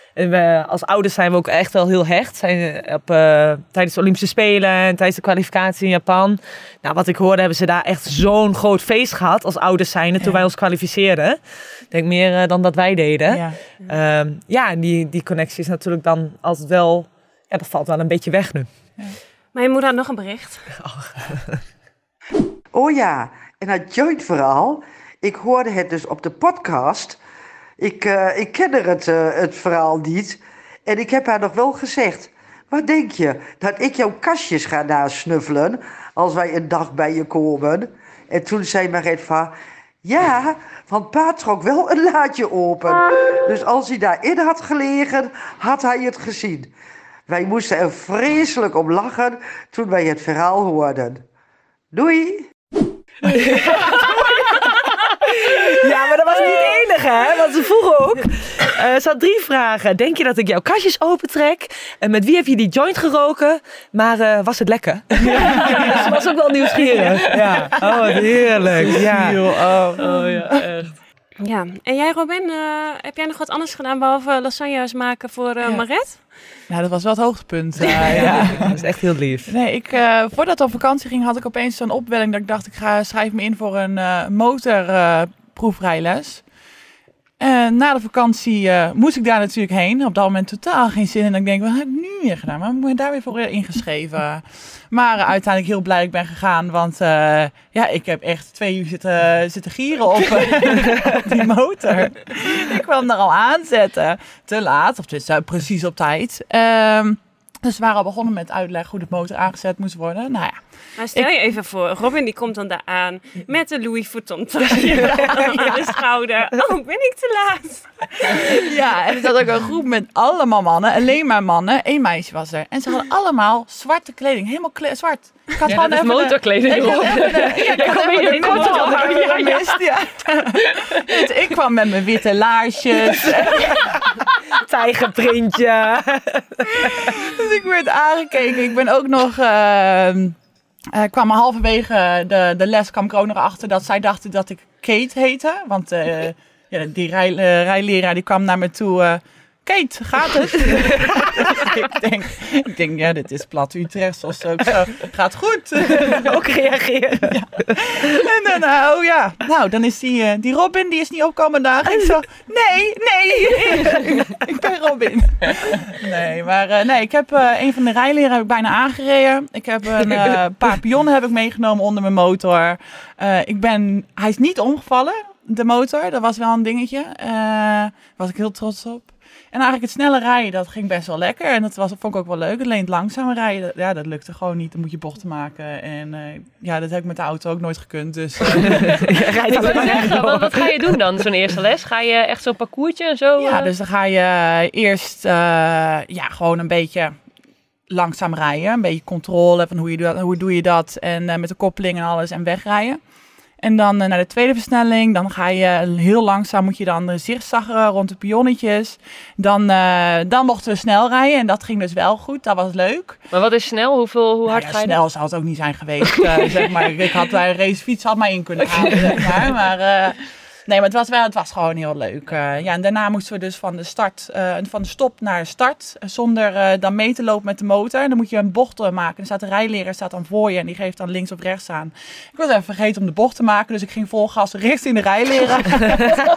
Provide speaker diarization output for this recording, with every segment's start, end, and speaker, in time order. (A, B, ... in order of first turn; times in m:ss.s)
0:00.2-0:11.4 A
0:10.2-0:10.5 B
0:11.9-0:18.7 A
0:13.3-0:13.6 B
0:19.5-0:20.8 C
0:20.8-0:21.6 A
0:22.7-0:27.2 D
0:27.8-0:46.7 D
0:47.3-0:51.2 D
0:51.9-0:52.5 D
0:53.3-1:09.4 A
0:56.3-0:56.8 C
1:05.4-1:06.1 C
1:05.5-1:06.1 B
1:08.7-1:10.6 B
1:10.0-1:11.0 E
1:11.4-1:16.4 C
1:16.7-1:18.8 B
1:17.9-1:18.4 C
1:18.1-1:19.5 A
1:19.5-1:26.4 B
1:27.4-1:51.3 B
1:51.0-1:58.6 C
1:54.7-1:55.8 B
1:58.3-2:13.8 B
2:05.6-2:09.8 E
2:08.3-2:09.5 C
2:10.7-2:11.2 E
2:14.6-2:17.2 A
2:16.8-2:20.4 B
2:20.9-2:36.3 B
2:31.2-2:31.6 A
2:35.8-2:38.3 A
2:37.3-3:10.2 B
3:08.5-3:10.8 A
3:09.5-3:13.7 E
3:13.4-3:17.2 B
3:17.9-3:23.0 B
3:23.6-3:33.2 B
3:33.3-3:35.0 E
3:34.5-3:56.2 B
3:38.8-3:39.2 E